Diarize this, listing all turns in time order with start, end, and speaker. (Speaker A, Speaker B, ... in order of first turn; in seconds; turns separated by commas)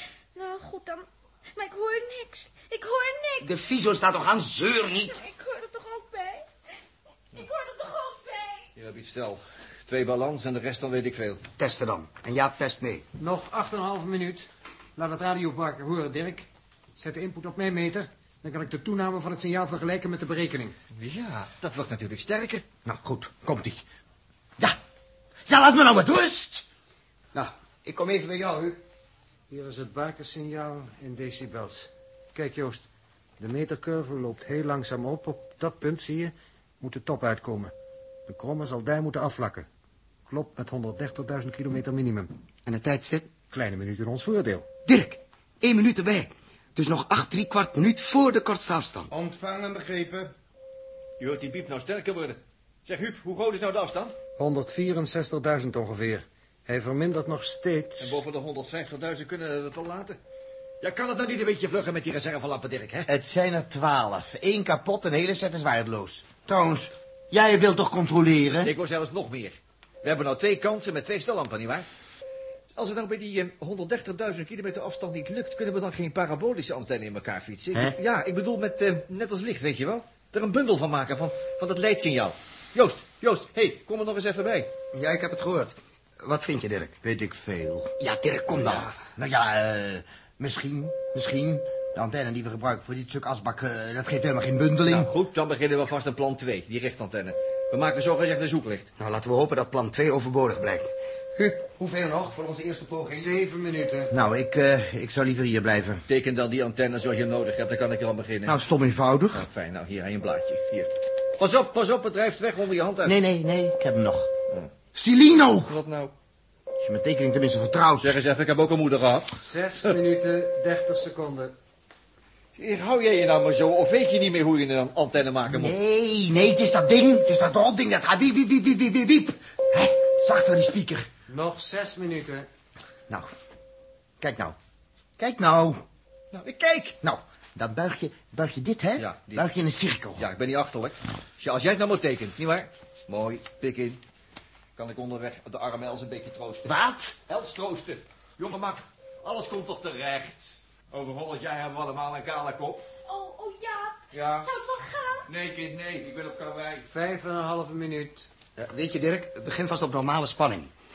Speaker A: 0.3-3.6, Speaker B: 3.4-5.2, Speaker A: 4.8-6.5, Speaker A: 7.3-8.7, Speaker C: 8.8-11.4, Speaker B: 11.6-13.0, Speaker D: 13.2-20.8, Speaker C: 20.9-22.6, Speaker E: 22.8-23.8, Speaker E: 25.5-26.6, Speaker B: 27.3-28.8, Speaker D: 29.5-32.9, Speaker D: 33.4-37.7, Speaker D: 38.3-39.7, Speaker D: 40.3-42.3, Speaker B: 42.6-43.3, Speaker D: 43.5-44.6, Speaker B: 44.9-49.1, Speaker E: 49.1-50.3, Speaker C: 51.2-54.2, Speaker D: 54.4-58.2, Speaker C: 58.0-60.2, Speaker C: 60.8-63.1, Speaker E: 63.1-68.7, Speaker C: 68.6-71.8, Speaker C: 72.7-84.7, Speaker B: 84.9-87.0, Speaker E: 87.0-87.9, Speaker B: 88.0-88.9, Speaker E: 88.7-95.1, Speaker C: 94.8-98.9, Speaker B: 99.0-103.3, Speaker D: 103.1-104.1, Speaker E: 104.1-106.0, Speaker C: 106.1-108.6, Speaker E: 108.5-109.5, Speaker C: 109.3-113.2, Speaker E: 113.0-114.3, Speaker E: 114.9-115.8, Speaker C: 115.7-116.1, Speaker E: 116.8-118.2, Speaker C: 118.0-119.9, Speaker D: 119.4-121.5, Speaker C: 122.5-125.8, Speaker E: 125.5-131.1, Speaker D: 131.3-132.5, Speaker E: 134.2-134.6, Speaker E: 135.2-135.8, Speaker C: 136.3-136.9, Speaker E: 136.8-140.2, Speaker C: 139.0-139.4, Speaker C: 140.2-144.0, Speaker C: 144.8-146.7, Speaker E: 146.6-147.2, Speaker C: 147.3-152.8, Speaker A: 153.0-155.3, Speaker C: 154.1-154.5, Speaker C: 155.3-156.9, Speaker D: 156.9-158.3, Speaker B: 158.6-160.7